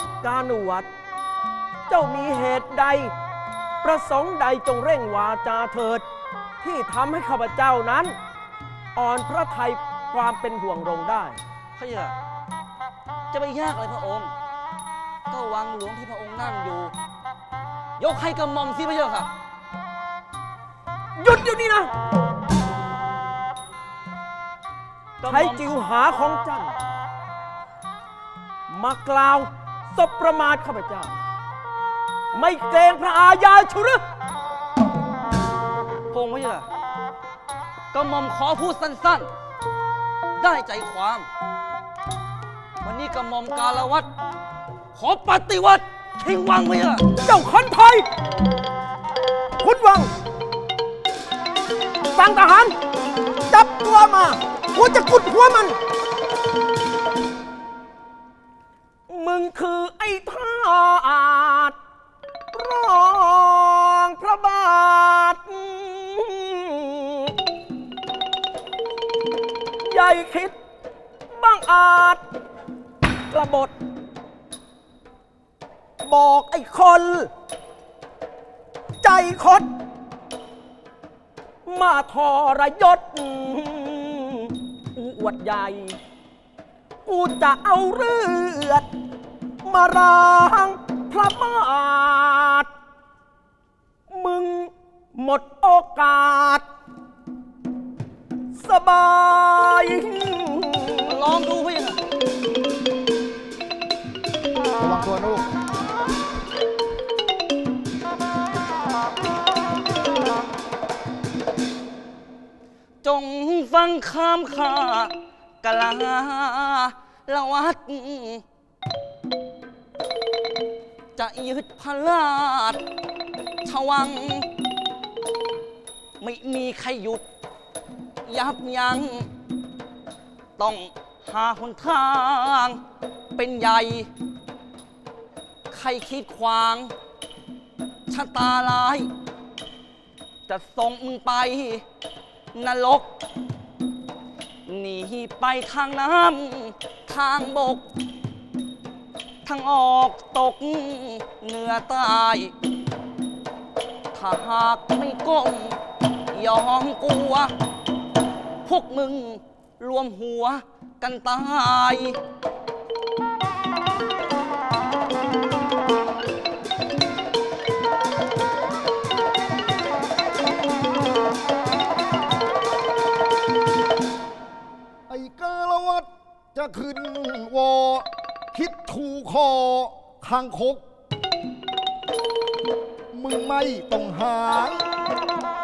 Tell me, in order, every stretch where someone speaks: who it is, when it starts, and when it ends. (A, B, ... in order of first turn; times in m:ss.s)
0:00.2-0:00.9 A
0:01.9-0:03.1 A
0:03.8-0:06.0 A
0:06.6-0:08.2 A
0:09.0-0:11.4 A
0:11.8-0:12.2 B
0:13.3-0:14.3 B
0:15.3-0:16.9 B
0:18.0-0:19.3 B
0:21.2-0:21.9 A
0:25.2-0:25.7 B
0:25.2-0:26.8 A
0:28.7-0:31.2 A
0:32.3-0:34.0 A
0:36.1-0:36.7 B
0:37.9-0:39.3 B
0:40.4-0:41.3 B
0:42.8-0:44.1 B
0:44.9-0:47.0 B
0:47.2-0:48.1 A
0:49.6-0:50.1 A
0:52.2-0:52.8 A
0:53.5-0:55.8 A
0:59.1-1:01.8 A
1:02.5-1:07.4 A
1:09.9-1:10.6 A
1:11.3-1:12.2 A
1:13.3-1:13.7 A
1:16.0-1:17.3 A
1:19.0-1:19.7 A
1:21.6-1:26.0 A
1:27.1-1:28.9 A
1:29.6-1:32.7 A
1:34.1-1:36.6 A
1:38.5-1:41.2 A
1:41.1-1:42.0 B
1:44.8-1:45.5 C
1:53.0-1:58.4 B
2:01.2-2:02.8 B
2:03.6-2:04.5 B
2:06.2-2:07.2 B
2:08.2-2:09.3 B
2:10.6-2:12.8 B
2:13.4-2:14.1 B
2:15.7-2:16.9 B
2:18.1-2:19.1 B
2:20.5-2:21.8 B
2:22.5-2:23.1 B
2:24.7-2:27.9 B
2:29.4-2:32.5 B
2:34.1-2:35.8 B
2:36.3-2:37.5 B
2:38.6-2:42.2 B
2:55.1-3:00.8 C
3:03.1-3:04.8 C